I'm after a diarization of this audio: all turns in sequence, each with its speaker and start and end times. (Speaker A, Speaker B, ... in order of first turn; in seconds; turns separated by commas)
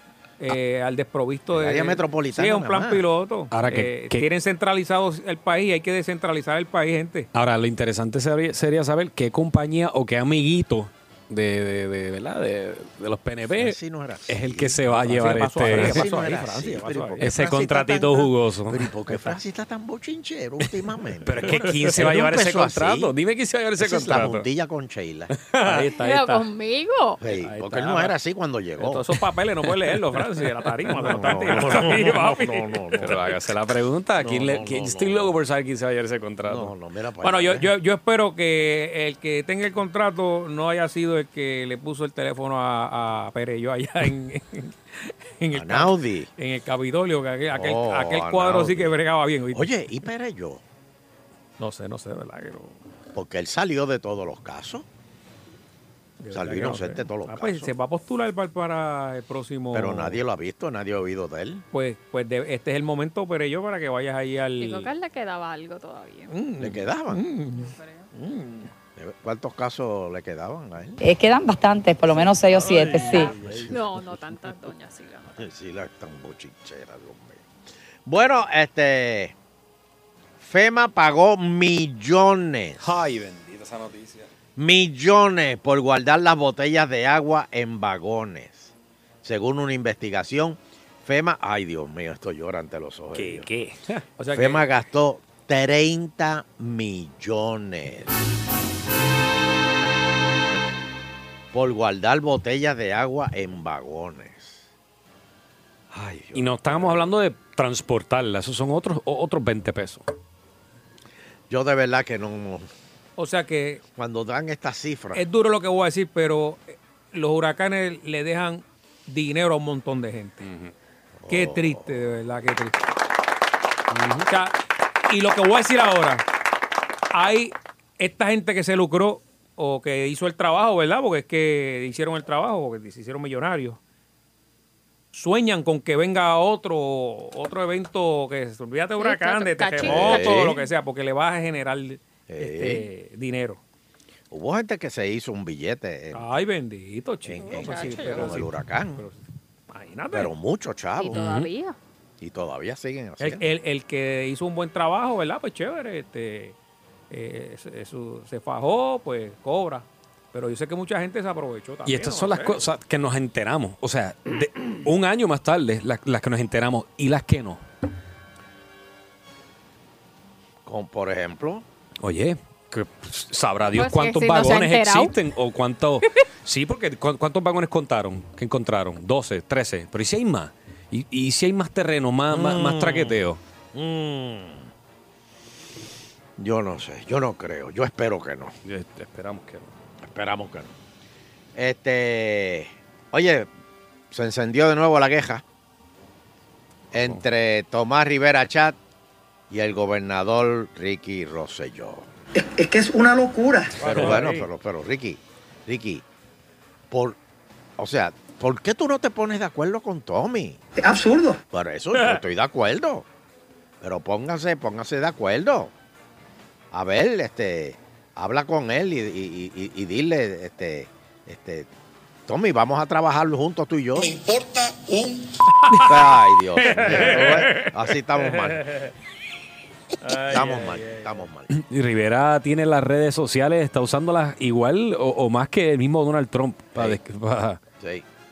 Speaker A: 0.4-7.3, Speaker B: 1.5-3.0, Speaker C: 3.5-4.2, Speaker C: 7.3-13.8, Speaker B: 13.5-14.8, Speaker C: 14.3-16.1, Speaker A: 14.9-17.2, Speaker B: 15.6-23.1, Speaker C: 17.2-18.9, Speaker C: 21.2-24.5, Speaker A: 21.4-21.9, Speaker B: 23.8-25.3, Speaker C: 25.4-26.4, Speaker A: 25.6-26.0, Speaker D: 25.9-27.2, Speaker B: 27.2-29.1, Speaker C: 27.4-28.0, Speaker A: 28.8-33.1, Speaker B: 30.9-33.2, Speaker C: 31.0-31.9, Speaker C: 33.0-36.7, Speaker B: 34.2-35.4, Speaker B: 36.5-37.7, Speaker A: 37.2-49.7, Speaker B: 45.5-46.3, Speaker B: 47.5-49.0, Speaker B: 49.5-50.6, Speaker A: 51.6-52.8, Speaker B: 53.1-54.9, Speaker A: 56.2-60.2, Speaker B: 56.3-57.7, Speaker B: 59.7-61.6, Speaker A: 61.7-64.9, Speaker D: 64.6-66.3, Speaker A: 66.3-68.7, Speaker B: 66.6-67.2, Speaker D: 67.5-68.1, Speaker B: 69.0-71.0, Speaker E: 71.0-73.3, Speaker A: 72.6-73.3, Speaker D: 73.0-75.5, Speaker B: 73.3-73.8, Speaker B: 75.4-77.5, Speaker B: 78.0-79.3, Speaker B: 80.4-82.9, Speaker C: 82.8-84.3, Speaker B: 84.5-88.7, Speaker B: 89.2-93.5, Speaker C: 93.3-94.0, Speaker A: 94.2-94.6, Speaker B: 94.3-98.1, Speaker B: 101.5-104.7, Speaker B: 105.9-107.1, Speaker C: 106.3-110.0, Speaker B: 111.5-112.7, Speaker A: 113.2-113.8, Speaker B: 114.0-115.2, Speaker A: 115.1-120.5, Speaker C: 120.4-120.7, Speaker B: 121.2-121.9, Speaker A: 121.3-122.9, Speaker C: 123.9-124.3, Speaker A: 124.3-124.5, Speaker A: 125.1-126.2, Speaker A: 127.1-133.8, Speaker A: 135.1-143.6, Speaker D: 139.0-140.5, Speaker B: 139.8-140.6, Speaker B: 142.3-142.8, Speaker B: 144.3-146.3, Speaker A: 146.1-149.2, Speaker B: 147.2-149.0, Speaker D: 147.4-148.4, Speaker A: 149.7-150.3, Speaker B: 150.1-151.2, Speaker D: 150.9-151.8, Speaker C: 151.1-151.5, Speaker B: 152.2-153.4, Speaker A: 153.2-156.6, Speaker A: 157.1-162.6, Speaker C: 161.8-167.6, Speaker B: 170.6-171.6, Speaker C: 172.0-183.4, Speaker D: 173.7-175.2, Speaker B: 182.3-183.1, Speaker B: 183.7-184.7, Speaker B: 186.4-188.5, Speaker C: 188.6-189.7, Speaker B: 190.0-190.7, Speaker B: 191.6-193.5, Speaker B: 194.1-195.4, Speaker B: 196.9-198.8, Speaker C: 196.9-197.2, Speaker B: 199.5-202.1, Speaker F: 202.3-203.8, Speaker A: 203.8-204.5, Speaker B: 203.8-206.0, Speaker B: 206.9-207.2, Speaker B: 207.8-210.6, Speaker F: 210.8-211.4, Speaker B: 211.5-213.1, Speaker A: 211.9-212.2, Speaker B: 213.8-215.7, Speaker B: 216.7-221.7, Speaker B: 222.3-224.2, Speaker A: 225.7-228.9, Speaker B: 225.8-228.7, Speaker A: 230.0-231.2, Speaker B: 230.2-231.5, Speaker C: 231.5-237.6, Speaker B: 237.8-238.0